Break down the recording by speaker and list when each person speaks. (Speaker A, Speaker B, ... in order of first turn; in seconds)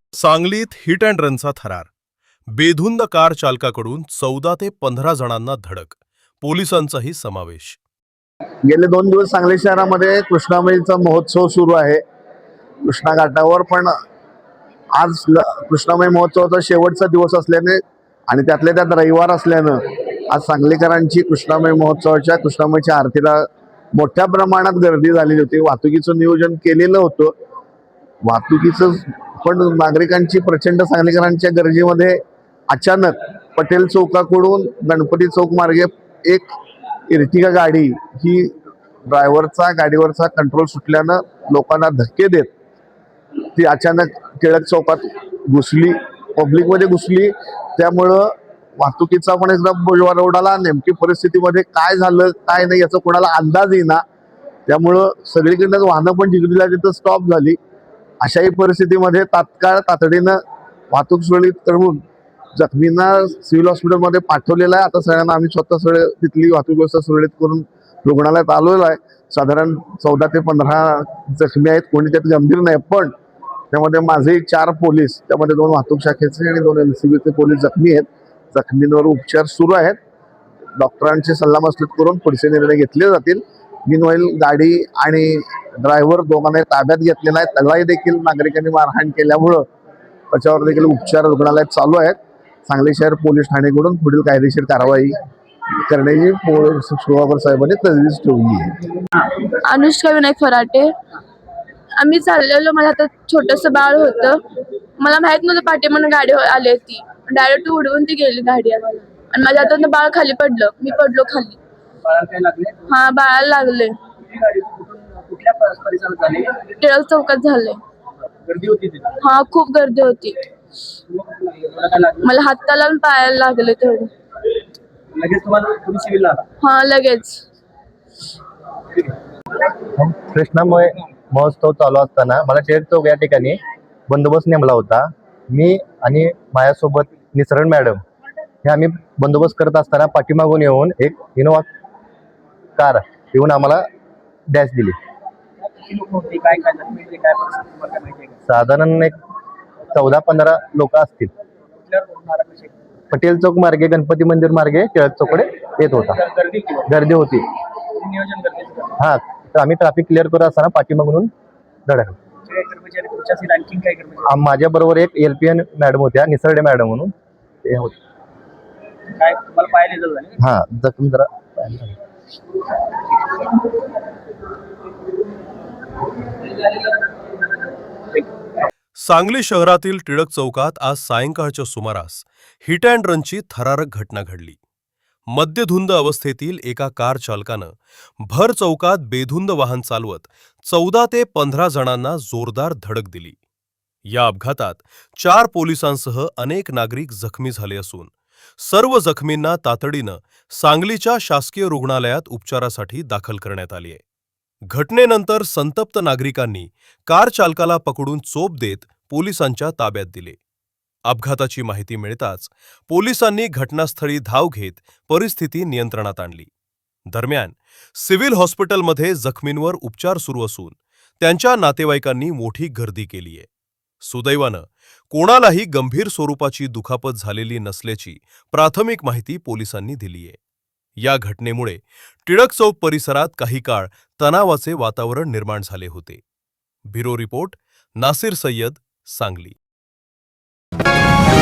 Speaker A: 0.1-1.9, 2.5-7.8, 179.0-184.6, 185.3-193.4, 194.1-204.0, 204.7-210.4, 211.1-216.5, 217.1-223.5, 224.0-230.4, 231.0-236.2, 236.9-239.6
Speaker B: 8.6-12.0, 12.8-13.9, 14.9-27.3, 28.2-36.5, 37.1-38.5, 39.1-42.5, 43.6-54.0, 54.7-57.6, 58.2-60.4, 60.9-62.0, 62.6-73.1, 73.7-80.0, 80.8-89.7, 90.3-95.2, 95.9-98.7
Speaker C: 99.6-100.9, 102.0-104.4, 105.0-111.6, 112.9-114.0, 116.8-117.8, 119.2-120.4, 122.2-124.1, 126.6-127.4
Speaker D: 112.0-112.9, 114.2-116.7, 118.5-119.2, 121.1-122.3, 125.2-126.5, 145.6-148.4, 151.9-152.8, 156.1-156.8, 158.0-159.0, 162.5-164.3, 169.2-170.4
Speaker E: 130.0-138.0, 138.6-141.7, 142.8-143.8, 144.5-145.0, 148.5-149.2, 149.9-151.3, 153.1-156.2, 156.8-157.5, 159.0-161.3, 161.9-162.2, 164.2-167.1, 167.6-167.9, 170.4-172.0